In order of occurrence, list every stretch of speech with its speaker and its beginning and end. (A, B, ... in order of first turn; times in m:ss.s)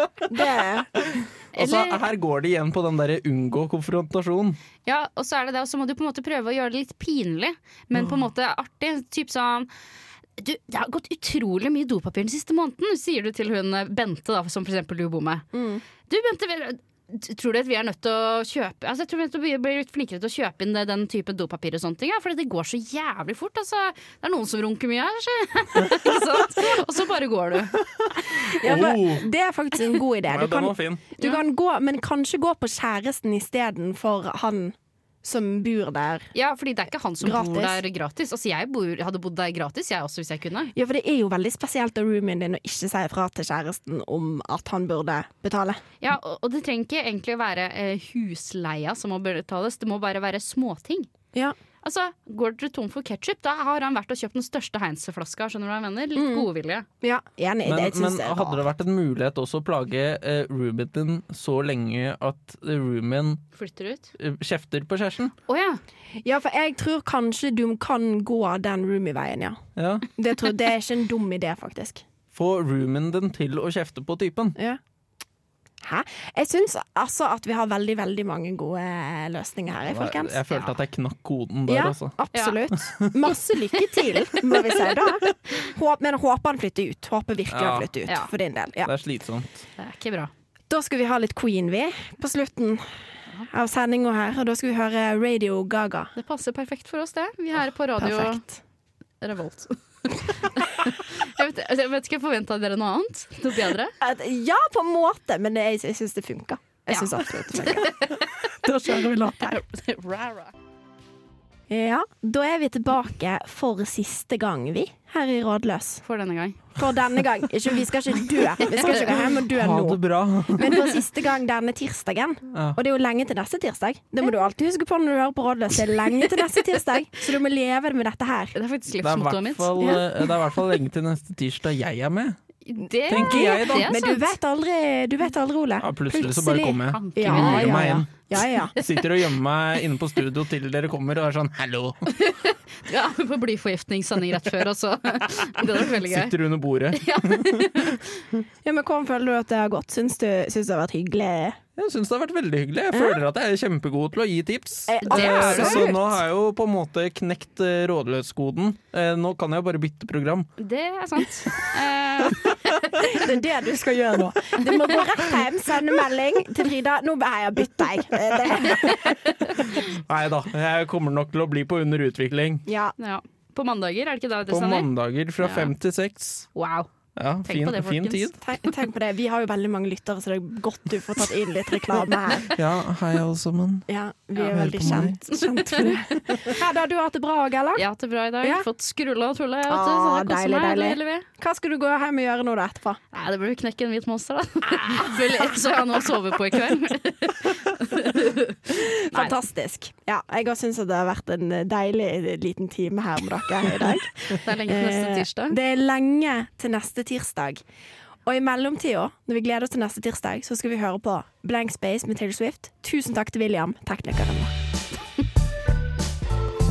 0:00.2-0:01.0 A
0:01.2-0:04.6 B
0:01.5-0:02.0 C
0:04.8-0:09.7 C
0:10.4-0:15.4 C
0:15.5-0:15.8 A
0:16.1-0:27.8 C
0:28.0-0:29.3 B
0:28.4-0:36.3 A
0:30.3-0:31.0 B
0:31.2-0:31.4 C
0:36.4-0:40.7 C
0:37.2-0:37.8 A
0:40.7-0:45.8 A
0:46.0-0:51.1 C
0:51.8-0:56.9 C
0:56.1-0:56.5 A
0:57.0-0:58.6 A
0:57.6-1:03.4 B
1:03.6-1:04.1 C
1:04.2-1:05.3 B
1:05.5-1:05.8 C
1:06.2-1:09.6 A
1:09.8-1:10.1 B
1:10.2-1:12.0 A
1:12.4-1:14.6 B
1:15.8-1:20.7 A
1:19.9-1:22.1 B
1:21.7-1:28.9 A
1:24.1-1:24.6 C
1:27.5-1:27.9 B
1:28.8-1:29.6 B
1:29.8-1:30.3 C
1:30.7-1:32.9 A
1:33.4-1:36.1 A
1:36.2-1:38.4 C
1:38.0-1:38.6 A
1:39.2-1:43.9 C
1:44.0-1:48.1 A
1:46.9-1:48.5 C
1:48.6-1:49.6 A
1:49.4-1:50.5 C
1:51.7-1:56.0 A
1:56.0-1:56.7 C
1:56.8-2:08.6 A
1:58.6-1:59.0 C
1:59.0-2:00.7 B
2:08.5-2:09.9 C
2:09.0-2:12.4 B
2:12.6-2:14.2 C
2:13.1-2:18.7 A
2:13.1-2:14.0 B
2:15.8-2:18.1 B
2:16.9-2:17.9 C
2:18.8-2:22.0 B
2:22.1-2:26.3 C
2:25.8-2:28.0 B
2:27.0-2:28.0 C
2:28.6-2:31.6 A
2:31.8-2:40.5 B
2:32.9-2:33.2 A
2:34.9-2:36.2 A
2:35.1-2:35.9 C
2:40.6-2:43.2 C
2:43.1-2:49.1 A
2:49.6-2:52.6 B
2:52.6-2:52.9 A
2:53.0-2:54.9 C
2:54.5-2:56.5 B
2:55.4-2:55.7 C
2:56.5-2:56.9 C
2:57.2-2:58.4 B
2:57.4-2:58.7 C
2:58.4-3:02.5 A
3:02.5-3:03.9 B
3:03.9-3:07.8 A
3:04.5-3:05.2 B
3:05.3-3:05.9 C
3:07.7-3:11.2 C
3:08.4-3:08.7 A
3:09.7-3:13.0 A
3:13.1-3:19.4 C
3:18.7-3:27.6 A
3:24.4-3:25.6 C
3:28.2-3:34.5 A